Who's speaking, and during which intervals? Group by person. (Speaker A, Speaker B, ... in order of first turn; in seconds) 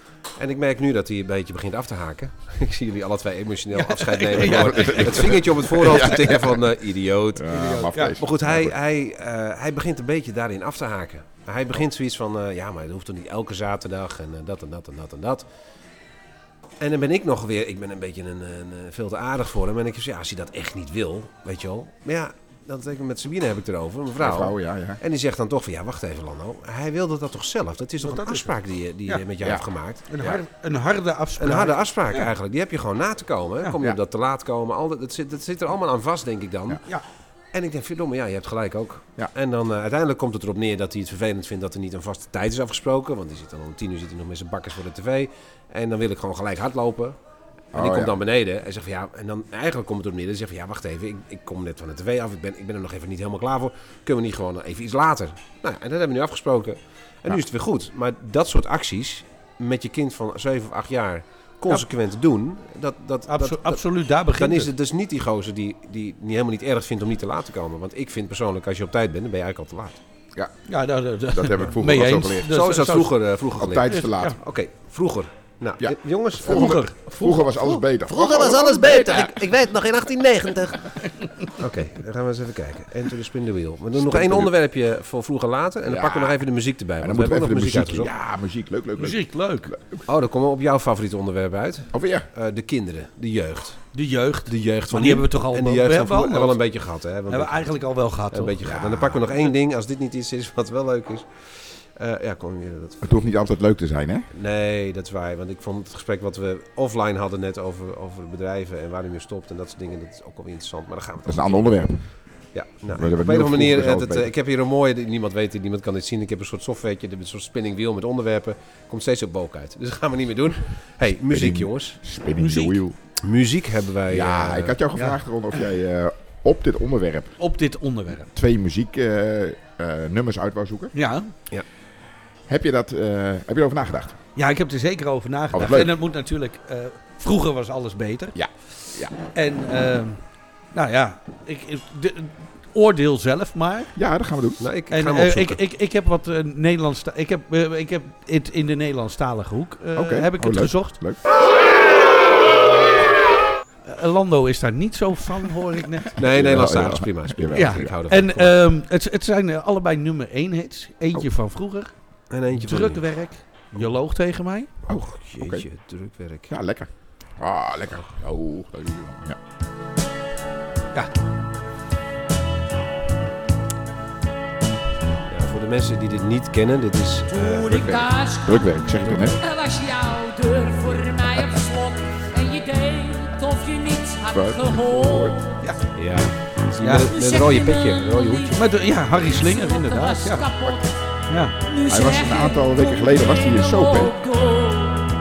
Speaker A: 0.4-15.4, 16.8-30.4, 31.4-36.8, 37.5-47.2, 47.7-70.0, 72.5-88.1, 90.1-93.9, 94.5-97.6, 98.3-103.3, 104.3-111.9, 112.5-122.0, 123.2-124.8, 144.6-145.6, 156.2-158.6, 162.3-163.1, 164.9-166.5, 175.3-177.9, 186.0-188.6
Speaker B: 3.7-5.3, 7.5-8.2, 28.0-28.5, 30.1-32.3, 63.3-64.7, 70.7-73.1, 73.9-74.4, 76.5-77.6, 89.0-89.7, 93.9-96.6, 97.3-98.6, 122.4-122.8, 127.4-128.3, 130.9-131.3, 134.4-138.4, 139.2-140.2, 140.7-143.9, 144.9-151.0, 153.8-156.2, 157.5-161.9, 162.6-164.7, 186.8-187.1, 188.5-190.5, 191.3-191.6
Speaker C: 4.4-6.6, 7.3-8.8, 24.2-25.0, 47.7-48.2, 71.3-72.5, 73.6-74.4, 75.8-79.4, 84.0-84.5, 85.9-86.4, 87.0-90.0, 91.9-92.3, 98.6-99.2, 103.0-104.3, 111.3-112.1, 112.9-114.3, 121.3-123.0, 124.1-127.4, 128.3-130.9, 132.5-134.2, 135.5-135.9, 138.3-139.1, 144.0-144.6, 150.0-151.2, 156.2-157.9, 164.9-165.7, 166.5-169.4, 177.7-179.4, 184.3-185.4, 191.9-194.2
Speaker D: 177.3-185.6, 187.1-188.6, 189.2-190.9, 191.6-195.1